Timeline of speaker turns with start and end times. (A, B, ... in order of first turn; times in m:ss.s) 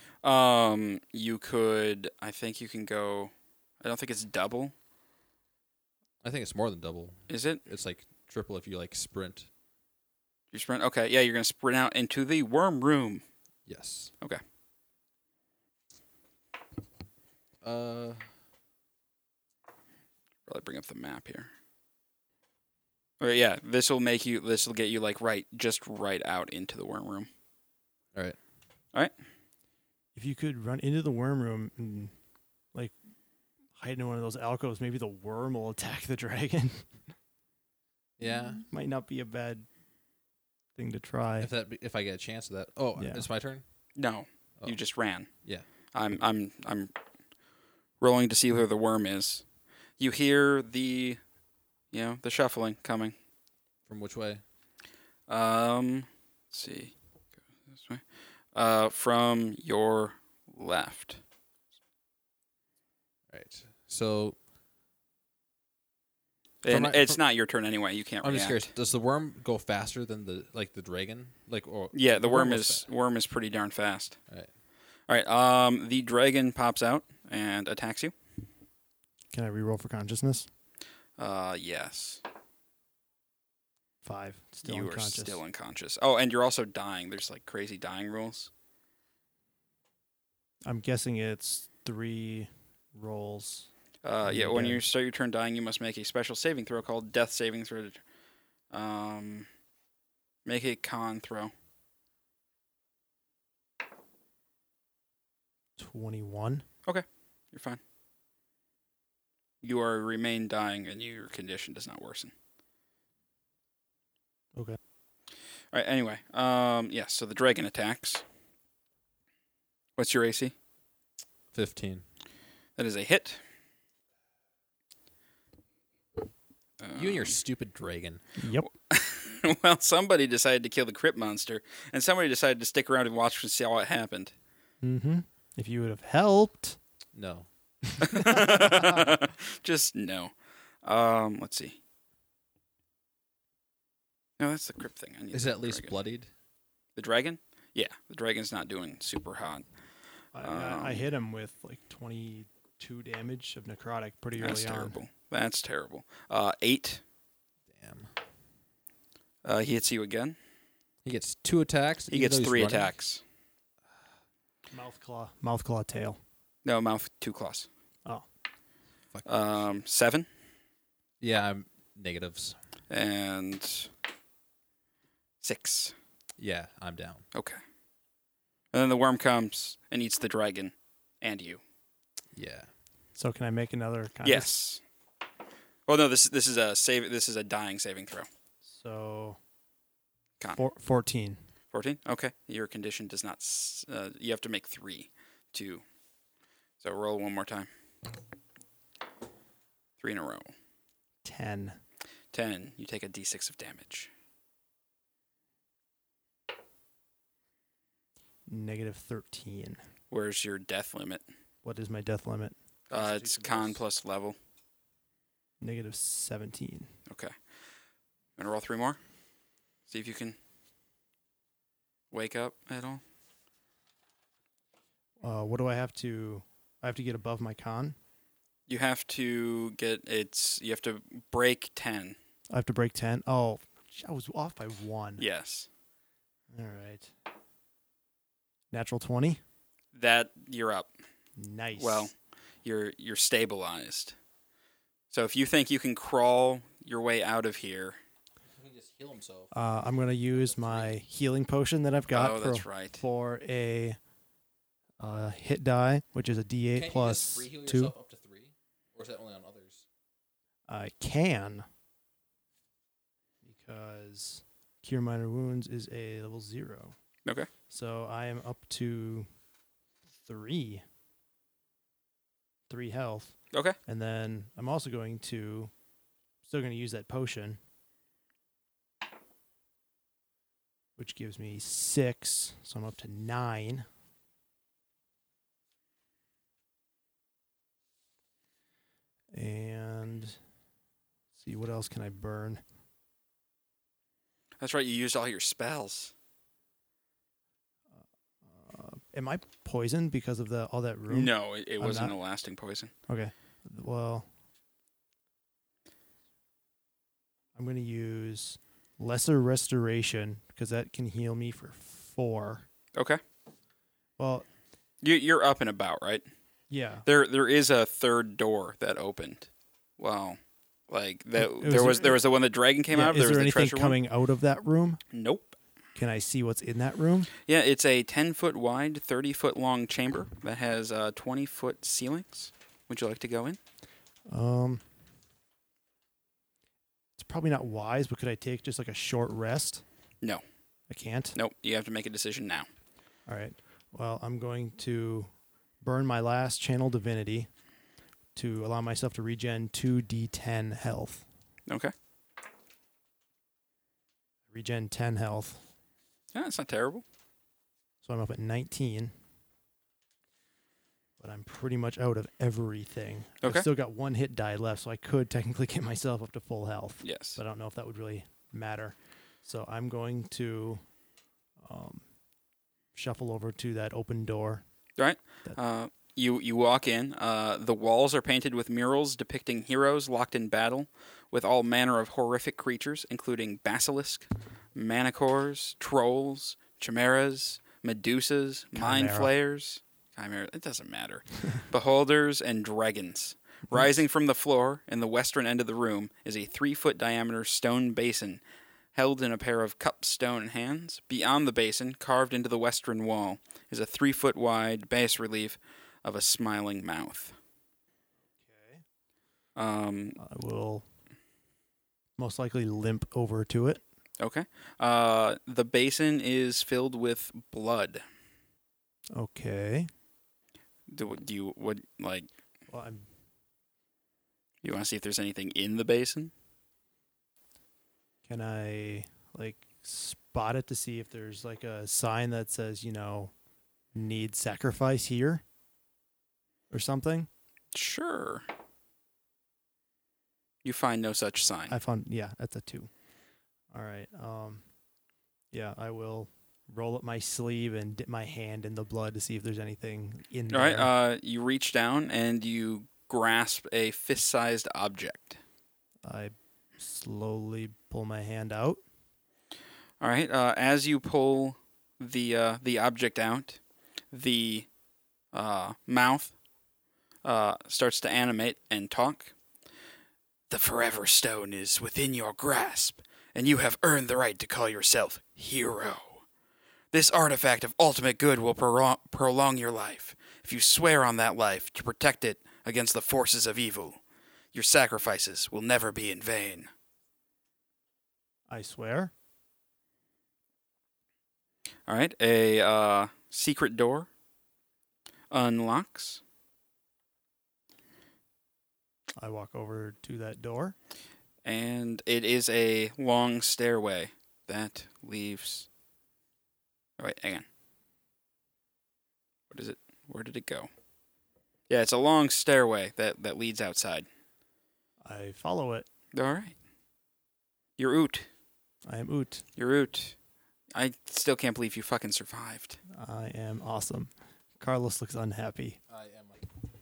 0:00.2-0:04.7 A
0:06.2-0:09.5 B
0:07.3-0:07.6 A
0:10.5-0:13.2 A
0:13.6-0:14.1 B
0:17.6-0:18.2 B
0:20.5-0:21.5 A
0:23.2-0:27.3 A
0:30.1-0:32.1 C
0:33.7-0:36.9 C
0:38.2-0:38.6 B
0:38.7-0:39.6 C
0:40.8-0:41.5 C
0:41.4-0:43.6 B
0:43.0-0:43.2 C
0:44.0-0:45.3 A
0:45.9-0:46.9 A
0:48.0-0:49.4 A
0:50.0-0:51.2 A
0:51.9-0:53.1 A
0:53.9-0:54.4 B
0:55.3-0:56.9 A
0:57.7-0:58.0 A
0:58.5-1:01.2 A
1:03.3-1:04.4 B
1:06.6-1:08.7 A
1:06.7-1:07.2 B
1:08.2-1:12.8 B
1:11.9-1:14.2 A
1:15.1-1:18.1 A
1:19.3-1:20.5 C
1:21.2-1:22.2 A
1:24.0-1:25.4 C
1:24.6-1:28.5 A
1:30.6-1:33.7 C
1:34.0-1:38.0 A
1:34.2-1:34.8 C
1:38.7-1:39.5 A
1:40.4-1:41.5 A
1:45.8-1:46.6 C
1:46.8-1:47.8 A
1:49.6-1:52.3 A
1:55.7-1:58.2 A
2:00.0-2:00.5 A
2:01.5-2:02.0 B
2:02.8-2:03.4 A
2:06.8-2:07.3 A
2:06.9-2:08.2 B
2:08.4-2:08.7 C
2:08.7-2:14.3 A
2:14.8-2:16.8 C
2:17.1-2:17.5 B
2:18.0-2:19.1 C
2:18.0-2:21.8 A
2:24.4-2:26.0 A
2:25.3-2:26.3 B
2:27.0-2:29.6 A
2:30.3-2:35.0 C
2:30.4-2:31.0 A
2:34.4-2:37.0 A
2:37.7-2:38.1 B
2:39.4-2:40.4 A
2:41.0-2:42.9 B
2:42.1-2:43.2 A
2:44.7-2:46.2 C
2:46.6-2:47.7 A
2:49.1-2:49.6 B
2:49.2-2:50.3 A
2:51.2-2:52.6 B
2:52.9-2:53.9 A
2:55.4-2:55.9 A
2:56.4-2:57.2 B
2:57.3-2:57.6 A
2:58.7-3:01.6 A
3:02.3-3:02.7 B
3:03.2-3:04.5 C
3:04.2-3:04.8 A
3:05.9-3:08.3 A
3:08.6-3:09.4 C
3:10.5-3:11.4 C
3:11.7-3:15.8 A
3:16.8-3:17.7 A
3:20.0-3:20.5 A
3:21.2-3:21.8 C
3:22.3-3:24.1 A
3:28.5-3:29.8 C
3:30.1-3:31.2 A
3:31.6-3:33.8 C
3:32.9-3:34.4 A
3:35.6-3:36.9 C
3:37.1-3:37.3 A
3:38.4-3:39.0 A
3:39.9-3:40.4 A
3:42.1-3:43.0 A
3:45.2-3:48.0 C
3:48.7-3:52.2 A
3:52.5-3:55.2 C
3:55.2-3:55.7 A
3:56.5-3:57.1 C
3:58.7-3:59.4 C
3:59.9-4:00.9 A
4:01.4-4:02.1 C
4:01.8-4:02.1 A
4:02.6-4:04.2 A
4:05.1-4:08.0 A
4:08.5-4:09.5 B
4:09.5-4:14.0 C
4:10.3-4:11.0 B
4:12.1-4:13.0 A
4:15.0-4:17.9 C
4:16.7-4:19.8 B
4:20.7-4:21.6 C
4:23.4-4:27.0 C
4:27.7-4:29.3 C
4:30.2-4:30.8 C
4:32.7-4:35.7 C
4:36.4-4:37.6 C
4:41.0-4:43.8 C
4:49.3-4:50.4 C
4:51.4-4:52.6 C
4:54.6-4:56.1 A
4:58.0-5:02.1 C
5:01.1-5:02.9 A
5:03.1-5:04.3 C
5:07.6-5:12.6 C
5:14.2-5:14.4 C
5:15.0-5:16.2 A
5:16.7-5:17.0 C
5:17.0-5:19.5 A
5:20.0-5:20.4 A
5:20.9-5:24.0 A
5:21.4-5:22.2 C
5:22.9-5:25.0 C
5:25.1-5:25.6 A
5:25.9-5:27.3 C
5:27.4-5:33.6 A
5:34.3-5:34.8 C
5:37.2-5:39.8 C
5:40.9-5:41.4 C
5:41.3-5:42.7 A
5:43.2-5:47.5 C
5:48.3-5:51.2 C
5:54.5-5:55.6 C
5:56.3-5:57.0 A
5:58.0-5:59.1 C
6:01.2-6:10.8 C
6:03.4-6:03.7 A
6:07.0-6:07.4 A
6:11.6-6:12.0 C
6:12.9-6:14.6 C
6:15.0-6:38.4 A
6:28.7-6:29.3 C
6:38.9-6:47.3 A
6:48.4-6:48.8 C
6:49.6-6:50.2 A
6:50.2-6:50.8 C
6:52.2-6:53.8 C
6:54.2-6:58.0 A
6:59.1-6:59.9 C
7:00.9-7:02.3 A
7:02.7-7:03.1 C
7:04.6-7:06.3 A
7:08.2-7:13.3 C
7:13.9-7:15.4 C
7:16.7-7:17.3 C
7:17.7-7:18.4 A
7:20.6-7:21.8 A
7:21.7-7:22.9 C
7:23.7-7:24.6 C
7:25.5-7:30.9 C
7:30.5-7:35.4 A
7:36.0-7:38.8 C
7:40.0-7:43.6 A
7:44.1-7:44.7 A
7:45.3-7:46.3 A
7:47.2-7:49.3 A
7:50.5-7:56.2 A
7:56.9-8:04.0 A
8:04.5-8:06.7 A
8:08.5-8:09.1 C
8:11.9-8:14.1 A
8:15.3-8:16.2 A
8:19.2-8:20.8 C
8:21.4-8:25.7 A
8:27.0-8:27.4 A
8:29.5-8:30.7 A
8:31.7-8:34.1 A
8:35.0-8:35.9 C
8:36.1-8:36.6 A
8:37.8-8:38.3 A
8:38.8-8:39.4 C
8:39.6-8:40.2 A
8:40.7-8:42.8 A
8:42.9-8:45.8 C
8:45.9-8:46.3 B